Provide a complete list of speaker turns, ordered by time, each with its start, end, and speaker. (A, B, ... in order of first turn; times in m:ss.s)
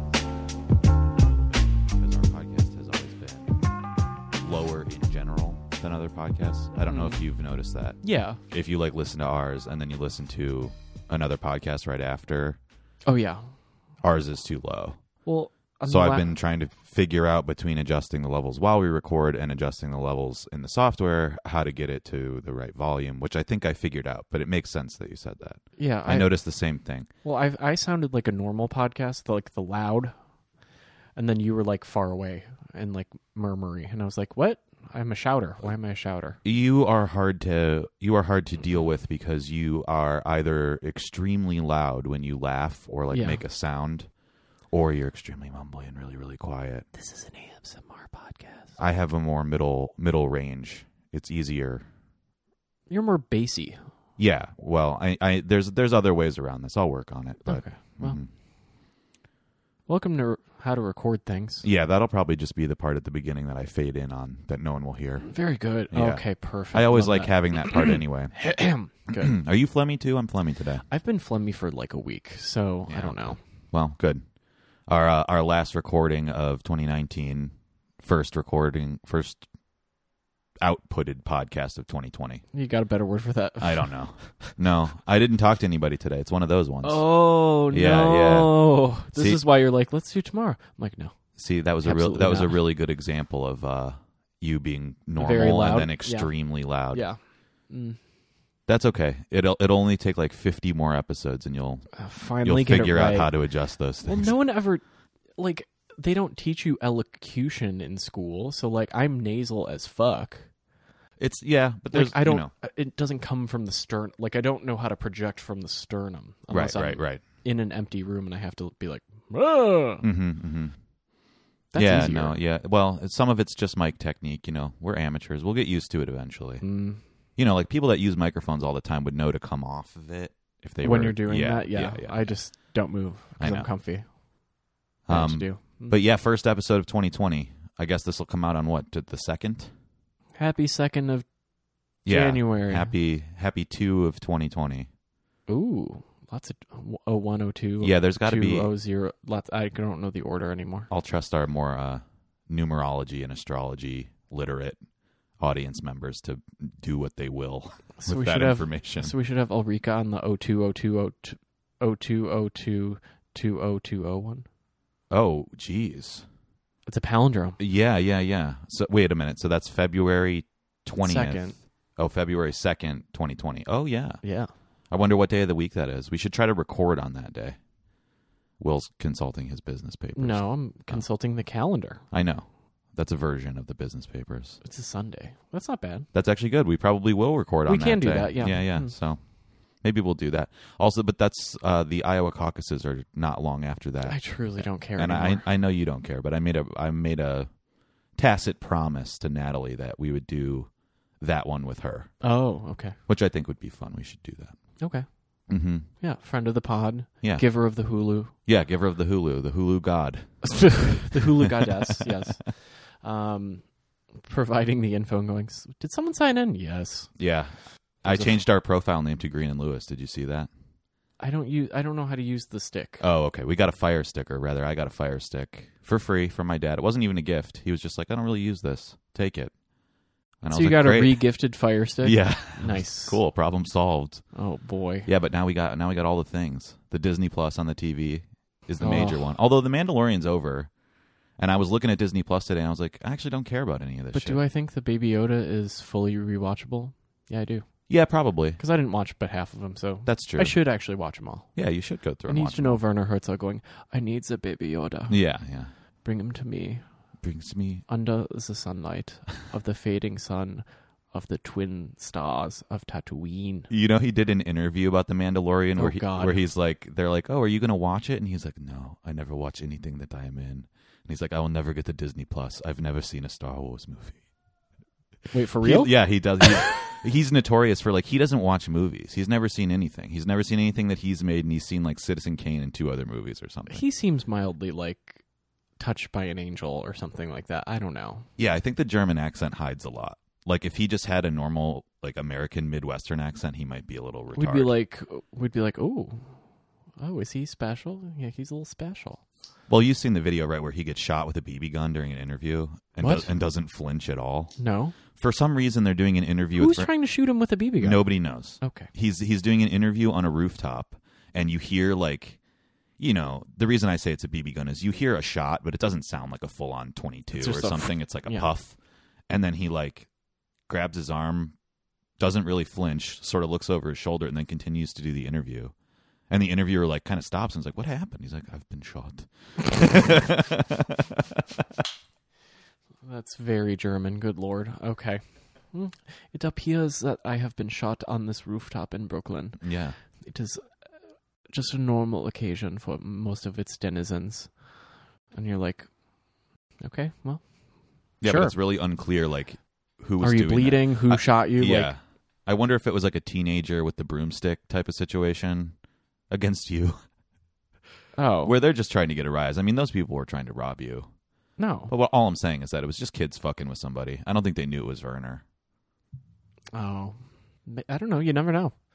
0:01.1-0:03.5 A
0:04.4-0:12.6 A
0:06.8-0:07.2 B
0:08.0-0:08.4 B
0:13.0-0:13.5 B
0:14.0-0:15.0 A
0:15.2-0:16.3 B
0:15.9-0:27.1 A
0:25.8-0:26.3 B
0:27.2-0:30.1 B
0:31.2-0:36.4 B
0:36.4-0:44.1 A
0:43.1-0:43.4 B
0:44.7-0:46.8 A
0:46.9-0:48.8 B
0:48.8-0:51.8 A
0:52.9-0:53.8 B
0:54.2-0:58.3 A
0:57.4-0:58.2 B
0:59.9-1:01.6 B
1:01.6-1:05.3 A
1:05.3-1:09.3 B
1:05.9-1:08.3 A
1:09.1-1:10.8 A
1:10.9-1:13.4 B
1:12.9-1:14.2 A
1:14.9-1:19.4 A
1:20.6-1:22.4 A
1:22.5-1:24.5 B
1:23.6-1:27.1 A
1:26.8-1:31.2 B
1:27.7-1:29.4 A
1:31.4-1:37.0 A
1:31.8-1:32.6 B
1:35.2-1:36.3 B
1:36.9-1:37.2 B
1:37.7-1:38.0 B
1:38.7-1:41.9 A
1:41.9-1:43.3 B
1:42.4-1:44.3 A
1:44.0-1:44.8 B
1:45.4-1:50.5 B
1:51.2-1:52.5 A
1:51.9-2:00.0 B
1:56.5-1:57.2 A
2:00.0-2:00.7 A
2:01.7-2:02.4 B
2:01.8-2:06.6 A
2:06.6-2:07.0 B
2:07.4-2:12.2 A
2:10.8-2:14.0 B
2:13.4-2:13.7 A
2:15.1-2:19.7 A
2:15.1-2:16.0 B
2:20.4-2:21.2 B
2:22.0-2:24.9 A
2:22.1-2:22.9 B
2:25.5-2:30.9 B
2:27.8-2:28.7 A
2:30.9-2:34.8 A
2:35.4-2:39.1 A
2:38.0-2:44.4 B
2:45.1-2:46.2 A
2:46.9-2:47.6 B
2:47.6-2:54.2 A
2:51.0-2:51.6 B
2:54.2-2:54.5 B
2:54.9-2:57.6 A
2:58.6-3:01.0 A
3:00.2-3:02.0 B
3:02.1-3:04.6 A
3:04.6-3:06.1 B
3:06.1-3:09.2 A
3:07.7-3:08.9 B
3:09.8-3:17.5 A
3:14.0-3:15.4 B
3:18.2-3:20.7 A
3:21.2-3:22.1 A
3:22.2-3:23.0 B
3:23.1-3:24.6 A
3:24.8-3:25.0 B
3:25.5-3:25.9 A
3:26.0-3:28.3 B
3:28.5-3:32.1 A
3:30.4-3:33.6 B
3:34.2-3:37.1 B
3:37.2-3:40.5 A
3:38.0-3:38.4 B
3:41.2-3:43.0 B
3:43.0-3:49.5 A
3:50.4-3:51.2 A
3:50.5-3:53.2 B
3:52.0-3:54.2 A
3:54.3-3:55.1 B
3:55.0-4:00.7 A
3:58.8-3:59.3 B
4:01.4-4:04.4 A
4:04.1-4:07.7 B
4:07.9-4:08.6 A
4:08.6-4:11.5 B
4:10.0-4:10.6 A
4:11.6-4:12.8 A
4:12.3-4:15.2 B
4:15.1-4:15.7 A
4:16.0-4:16.8 B
4:17.2-4:17.8 A
4:17.9-4:23.7 B
4:23.7-4:34.2 A
4:25.8-4:26.4 B
4:35.3-4:35.9 B
4:35.6-4:43.8 A
4:43.7-4:45.2 B
4:45.8-4:48.3 B
4:48.4-4:54.7 A
4:54.3-4:56.3 B
4:57.0-4:59.2 B
4:59.7-5:04.5 A
5:03.0-5:03.3 B
5:04.6-5:05.0 B
5:05.1-5:06.9 A
5:06.6-5:08.9 B
5:07.8-5:12.4 A
5:13.0-5:18.8 A
5:17.4-5:18.5 B
5:19.3-5:20.1 A
5:20.7-5:21.5 A
5:22.2-5:25.7 A
5:26.3-5:31.8 A
5:33.0-5:39.7 B
5:39.6-5:40.0 A
5:40.2-5:40.6 B
5:41.5-5:44.6 B
5:45.3-5:45.9 B
5:46.8-5:47.4 B
5:48.2-5:55.7 A
5:48.2-5:48.5 B
5:50.2-5:51.9 B
5:56.3-5:57.0 A
5:58.2-5:58.5 B
5:58.4-6:01.1 A
6:01.6-6:01.9 B
6:01.9-6:05.4 A
6:06.7-6:08.7 B